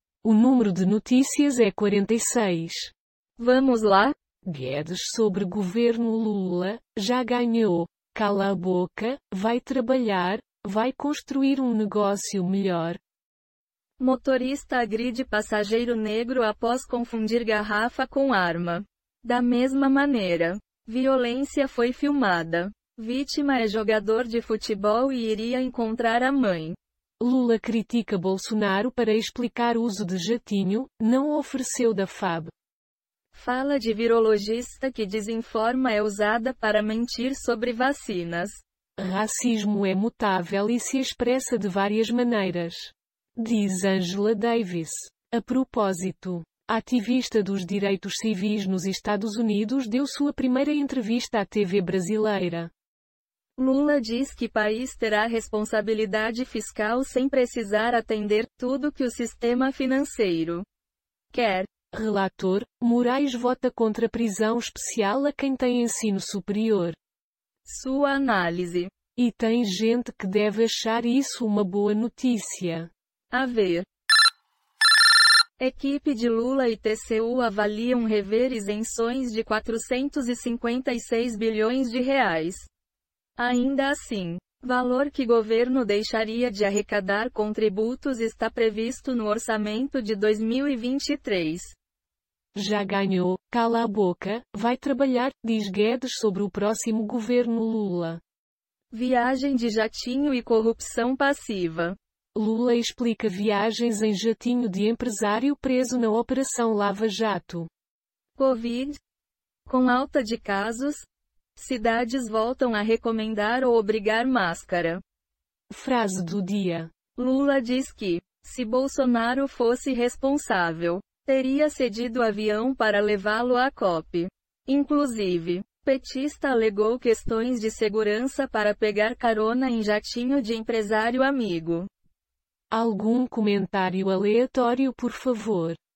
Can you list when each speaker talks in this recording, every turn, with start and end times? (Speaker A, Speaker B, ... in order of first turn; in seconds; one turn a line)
Speaker A: 0.2-2.9
Speaker B: 3.4-4.1
Speaker A: 4.5-13.0
Speaker B: 14.0-26.8
Speaker A: 27.2-32.5
Speaker B: 33.3-38.6
Speaker A: 39.0-52.7
Speaker B: 53.6-60.6
Speaker B: 61.3-61.7
Speaker A: 61.9-67.0
Speaker B: 67.6-68.9
Speaker A: 69.2-72.9
Speaker B: 73.3-73.9
Speaker B: 75.6-82.7
Speaker B: 83.4-91.8
Speaker A: 92.5-98.2
Speaker B: 98.9-102.0
Speaker A: 102.3-107.7
Speaker B: 108.4-109.0
Speaker B: 109.7-115.0
Speaker A: 115.7-116.9
Speaker B: 117.2-131.9
Speaker A: 132.7-135.8